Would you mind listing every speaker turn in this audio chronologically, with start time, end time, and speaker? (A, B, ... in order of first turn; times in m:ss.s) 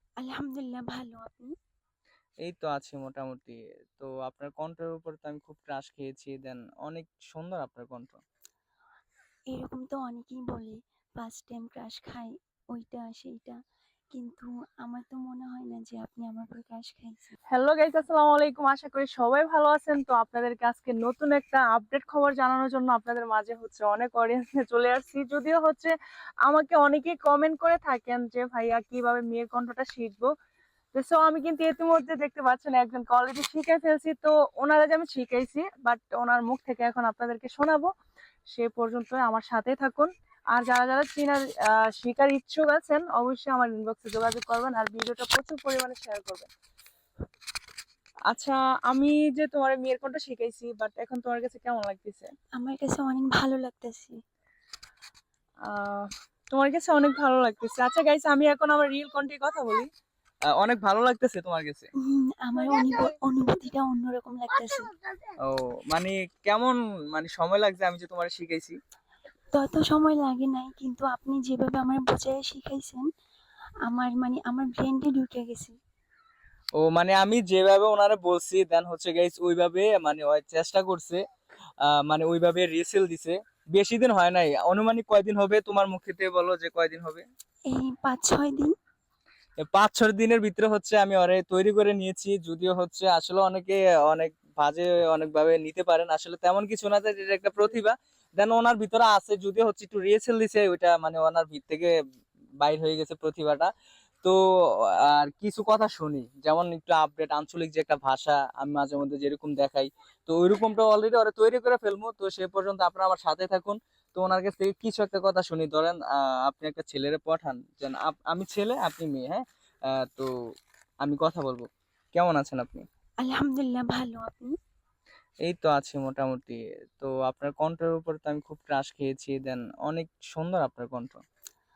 0:00.2-0:01.5 A
0:02.4-0:08.2 B
0:09.5-0:13.6 A
0:14.1-0:17.4 A
0:17.5-0:30.3 C
0:30.9-0:37.9 C
0:38.5-0:46.5 C
0:48.3-0:52.3 C
0:52.6-0:54.2 A
0:55.6-0:59.9 C
1:00.6-1:01.9 B
1:02.1-1:04.9 A
1:05.5-1:08.8 B
1:09.6-1:13.0 A
1:13.9-1:15.8 A
1:16.8-1:21.2 B
1:21.8-1:27.2 B
1:27.7-1:28.7 A
1:29.6-1:41.9 B
1:42.6-1:43.7 B
1:45.0-2:00.3 B
2:01.0-2:02.8 B
2:03.2-2:04.5 A
2:05.4-2:11.2 B